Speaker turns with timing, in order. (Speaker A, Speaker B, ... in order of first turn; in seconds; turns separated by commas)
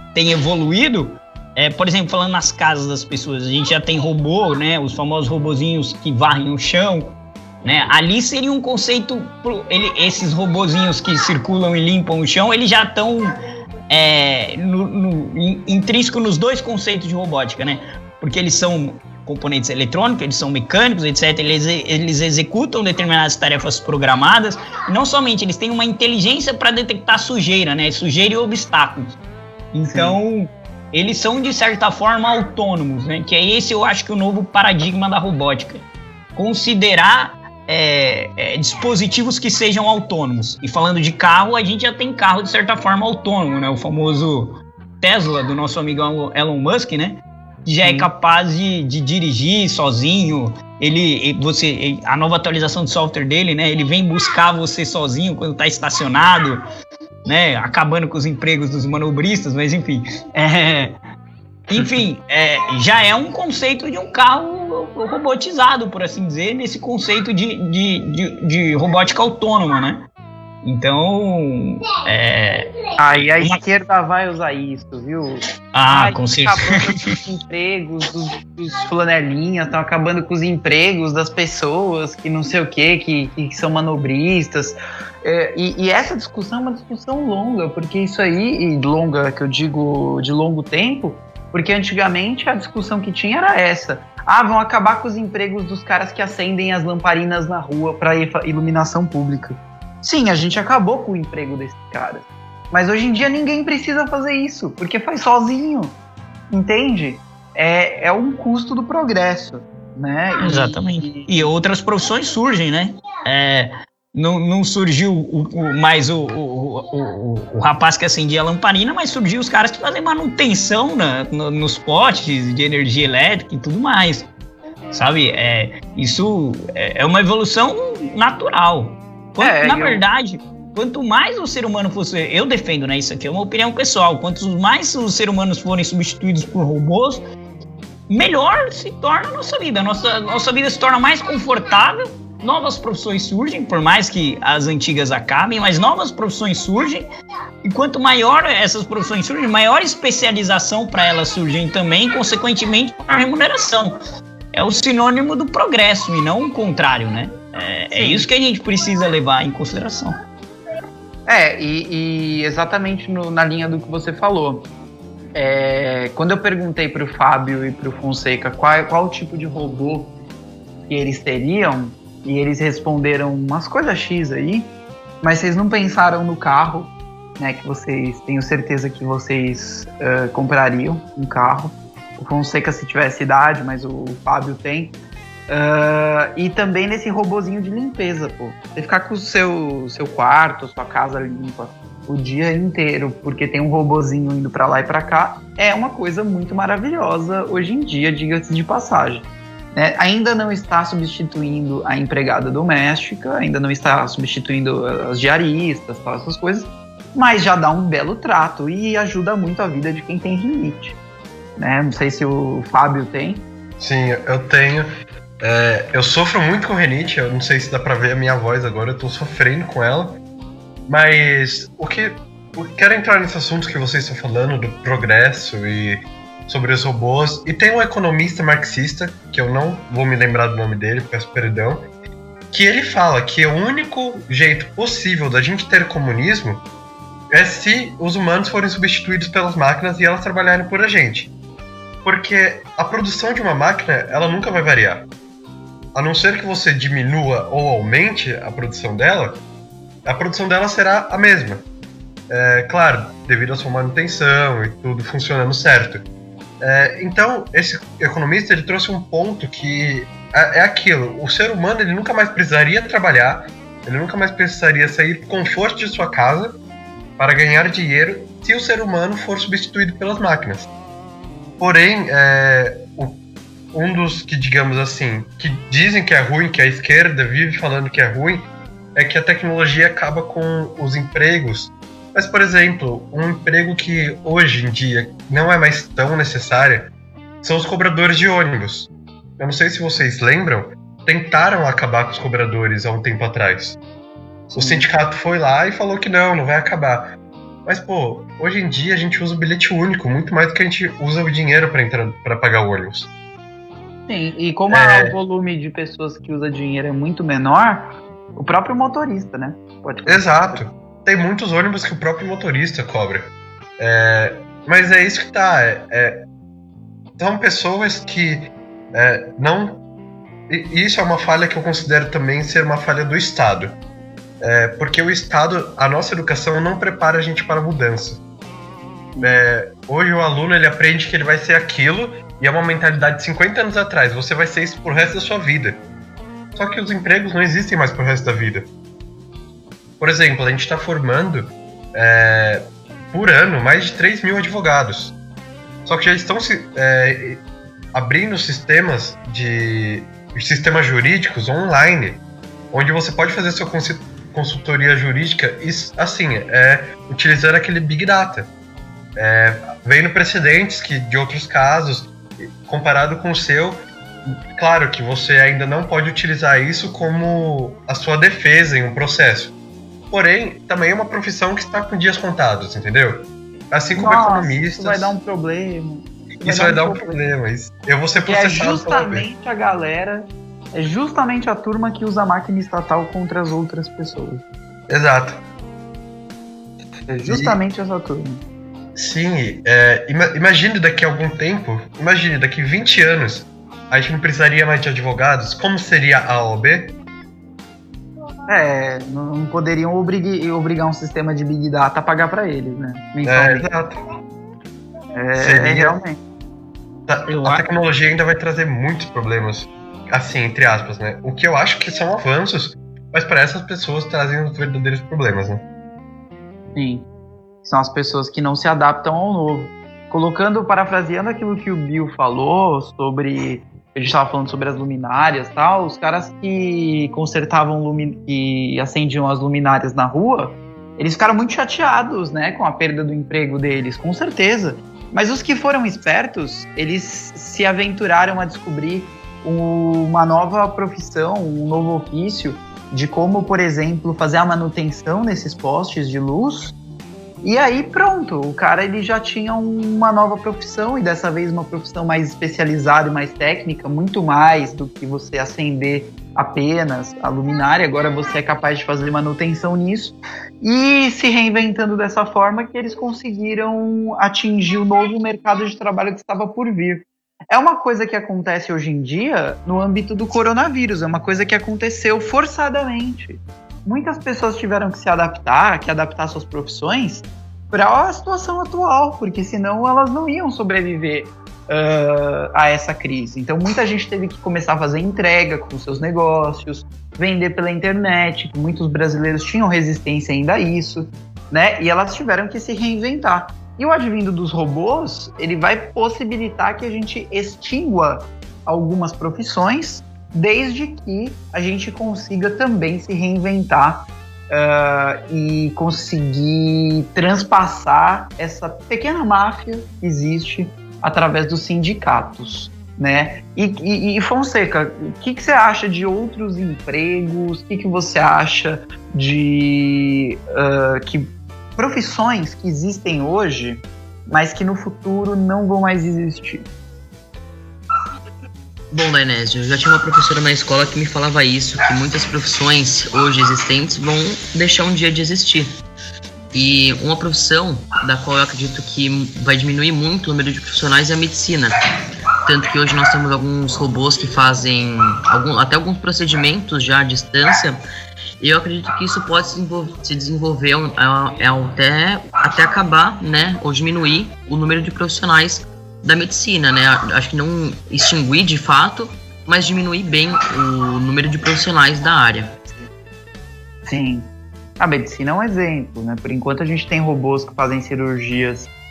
Speaker A: 0.1-13.3, Speaker A: 13.9-29.2, Speaker A: 29.7-56.6, Speaker B: 29.9-30.2, Speaker B: 47.8-48.1, Speaker A: 57.3-61.0, Speaker A: 61.7-70.1, Speaker A: 70.6-72.7, Speaker B: 73.0-106.0, Speaker A: 75.7-77.1, Speaker B: 106.5-111.4, Speaker A: 110.4-124.3, Speaker A: 124.9-137.2, Speaker B: 129.4-130.0, Speaker A: 138.1-147.1, Speaker A: 147.6-153.9, Speaker A: 154.5-160.2, Speaker B: 157.9-158.3, Speaker B: 161.3-164.7, Speaker B: 165.3-170.1, Speaker B: 170.9-174.7, Speaker B: 175.2-184.9, Speaker B: 185.5-211.0, Speaker B: 211.6-213.4, Speaker C: 213.8-214.9, Speaker C: 215.4-220.2, Speaker C: 220.9-231.9, Speaker C: 232.5-236.6, Speaker C: 237.3-241.3, Speaker C: 242.1-245.1, Speaker C: 245.9-249.4, Speaker C: 250.1-251.6, Speaker C: 252.3-256.1, Speaker C: 256.6-266.6, Speaker C: 267.2-270.7, Speaker C: 271.6-273.2, Speaker C: 273.7-286.9, Speaker C: 287.4-293.8, Speaker C: 294.5-303.1, Speaker B: 294.6-294.9, Speaker B: 304.1-310.6, Speaker C: 304.7-305.1, Speaker C: 310.1-316.2, Speaker C: 317.2-319.8, Speaker C: 320.5-323.8, Speaker C: 324.4-328.2, Speaker B: 329.1-329.4, Speaker C: 329.2-335.8, Speaker C: 336.6-338.7, Speaker C: 340.0-345.1, Speaker C: 345.9-347.4, Speaker C: 347.9-358.5, Speaker C: 359.2-369.5, Speaker C: 370.1-375.2, Speaker B: 373.9-377.2, Speaker C: 376.4-379.3, Speaker B: 378.2-384.4, Speaker C: 384.9-385.4, Speaker B: 387.1-388.4, Speaker C: 387.2-387.6, Speaker C: 388.9-396.9, Speaker B: 398.5-403.7, Speaker C: 403.2-404.0, Speaker B: 405.1-406.2, Speaker C: 405.4-406.0, Speaker C: 407.1-415.6, Speaker B: 407.3-407.7, Speaker B: 416.8-417.1, Speaker B: 417.6-446.8, Speaker B: 447.4-526.6, Speaker D: 528.9-535.7, Speaker D: 536.5-541.7, Speaker D: 542.5-547.8, Speaker D: 548.4-562.5, Speaker B: 563.9-564.3, Speaker B: 564.8-568.7